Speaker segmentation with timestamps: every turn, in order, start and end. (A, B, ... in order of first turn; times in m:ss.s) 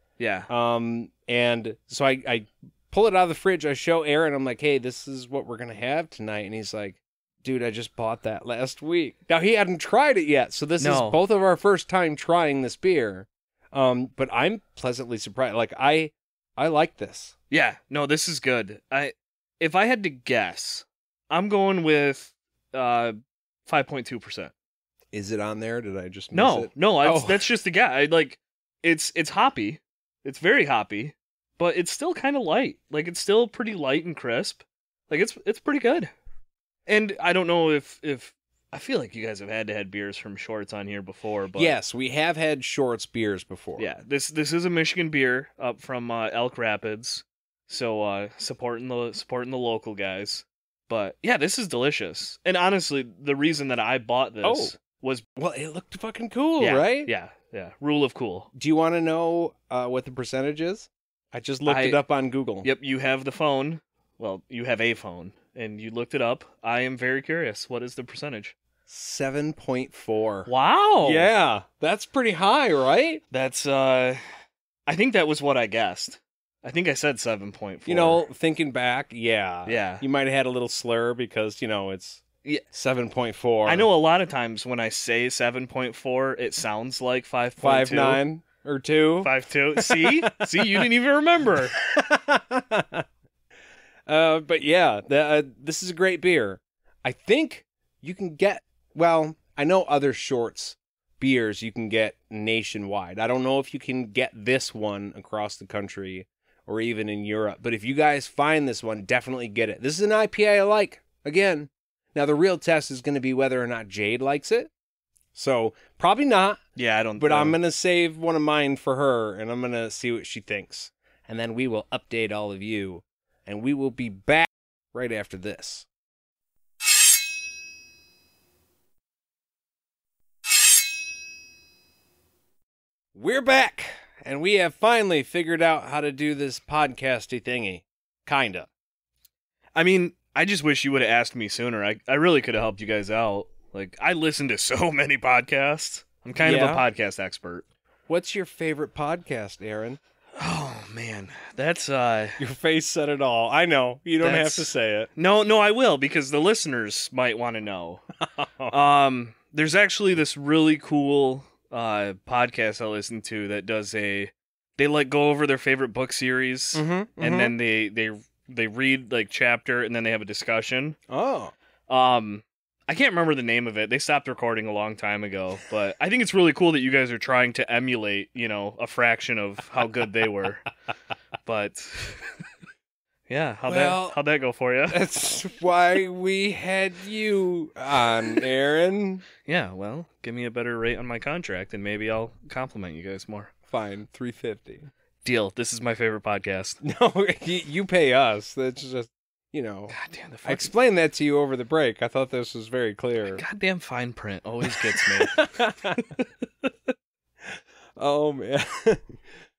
0:00.2-0:00.5 A
0:00.5-0:17.3 B
0:10.8-0:11.2 A
0:17.5-0:23.1 A
0:23.6-0:24.5 A
0:25.1-0:27.5 B
0:26.3-0:36.1 A
0:36.8-0:41.8 A
0:41.5-0:43.9 B
0:43.8-0:55.2 A
0:54.4-0:54.7 B
0:55.4-0:57.1 B
0:56.6-0:58.5 A
0:58.5-1:02.7 B
1:01.6-1:02.0 A
1:02.6-1:08.5 A
1:08.9-1:10.5 B
1:10.4-1:11.3 A
1:11.0-1:13.2 B
1:13.3-1:14.2 A
1:14.9-1:18.2 A
1:17.8-1:23.9 B
1:19.6-1:20.0 A
1:23.6-1:28.2 A
1:27.6-1:30.9 B
1:29.2-1:31.8 A
1:31.8-1:33.0 B
1:34.1-1:54.7 B
1:55.3-1:56.6 B
1:56.8-1:57.6 A
1:57.2-2:05.9 B
2:13.1-2:18.7 B
2:19.8-2:27.6 A
2:26.4-2:26.8 B
2:28.1-2:30.0 B
2:30.4-2:32.4 A
2:32.4-2:35.1 B
2:34.2-2:38.0 A
2:38.2-2:38.7 B
2:38.7-2:51.0 A
2:46.7-2:47.5 B
2:51.1-2:51.5 B
2:51.9-3:00.6 A
3:01.4-3:02.3 A
3:03.3-3:05.4 A
3:03.7-3:04.2 B
3:04.9-3:09.2 B
3:09.4-3:13.5 A
3:13.7-3:14.9 B
3:15.2-3:16.8 A
3:16.8-3:23.4 B
3:19.9-3:20.7 A
3:23.3-3:26.2 A
3:24.6-3:26.0 B
3:27.5-3:29.2 B